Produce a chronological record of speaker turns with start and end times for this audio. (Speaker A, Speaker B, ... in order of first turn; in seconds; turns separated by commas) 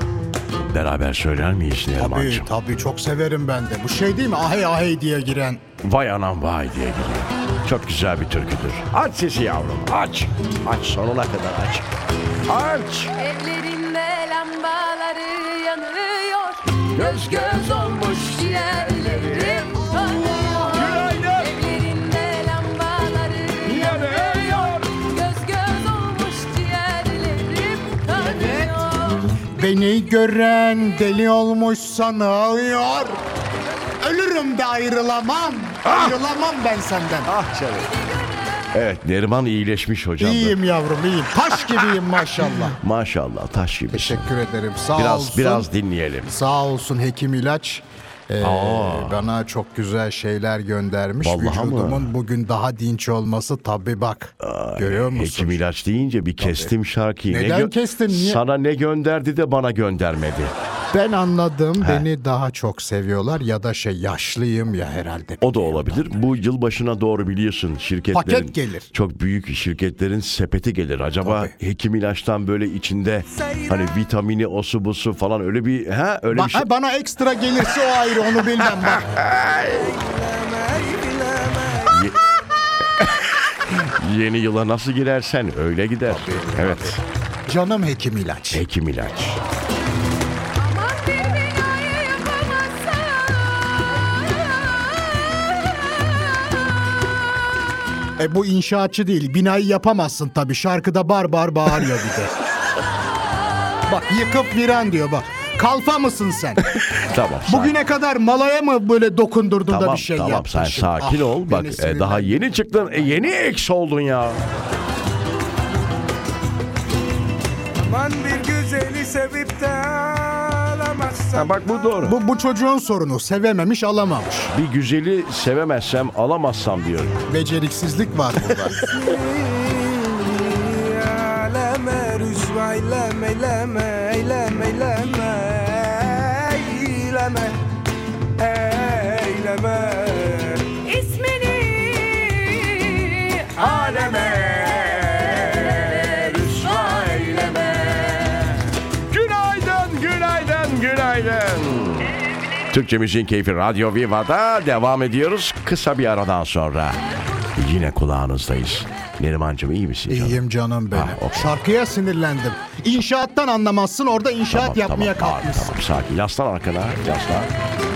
Speaker A: 0.7-2.5, Speaker B: 2.0-5.6, Speaker A: 5.8-13.2, Speaker C: 13.2-29.5, Speaker A: 16.9-21.5, Speaker A: 23.6-24.9, Speaker B: 29.5-33.2, Speaker B: 34.0-37.3, Speaker A: 35.8-36.2, Speaker A: 37.2-37.9, Speaker C: 37.9-38.5, Speaker A: 38.7-40.6, Speaker B: 40.2-42.8, Speaker A: 42.6-44.3, Speaker B: 43.9-45.7, Speaker A: 44.9-46.3, Speaker B: 46.2-55.6, Speaker A: 48.4-49.2, Speaker A: 51.2-52.1, Speaker A: 54.4-60.5, Speaker B: 56.4-56.7, Speaker B: 57.3-58.4, Speaker B: 60.9-66.1, Speaker A: 61.8-62.0, Speaker A: 65.4-76.7, Speaker B: 68.1-68.9, Speaker B: 71.2-71.5, Speaker D: 73.3-73.9, Speaker B: 76.3-79.0, Speaker A: 78.3-79.9, Speaker D: 79.5-82.4, Speaker A: 81.9-82.2, Speaker A: 83.0-87.0, Speaker B: 86.0-88.6, Speaker A: 88.5-89.4, Speaker C: 90.5-96.2, Speaker B: 98.2-102.3, Speaker B: 103.9-106.7, Speaker A: 106.7-107.8, Speaker B: 107.5-113.1, Speaker A: 109.7-114.4, Speaker D: 117.8-121.7, Speaker A: 121.3-122.2, Speaker B: 122.0-124.5, Speaker A: 124.5-127.1, Speaker B: 127.3-128.8, Speaker A: 128.4-128.8, Speaker D: 128.8-137.7, Speaker D: 138.4-140.8, Speaker C: 140.8-148.6, Speaker A: 143.6-152.2, Speaker A: 152.7-157.0, Speaker A: 157.5-160.4, Speaker B: 160.1-165.8, Speaker A: 160.9-161.6, Speaker A: 164.5-167.5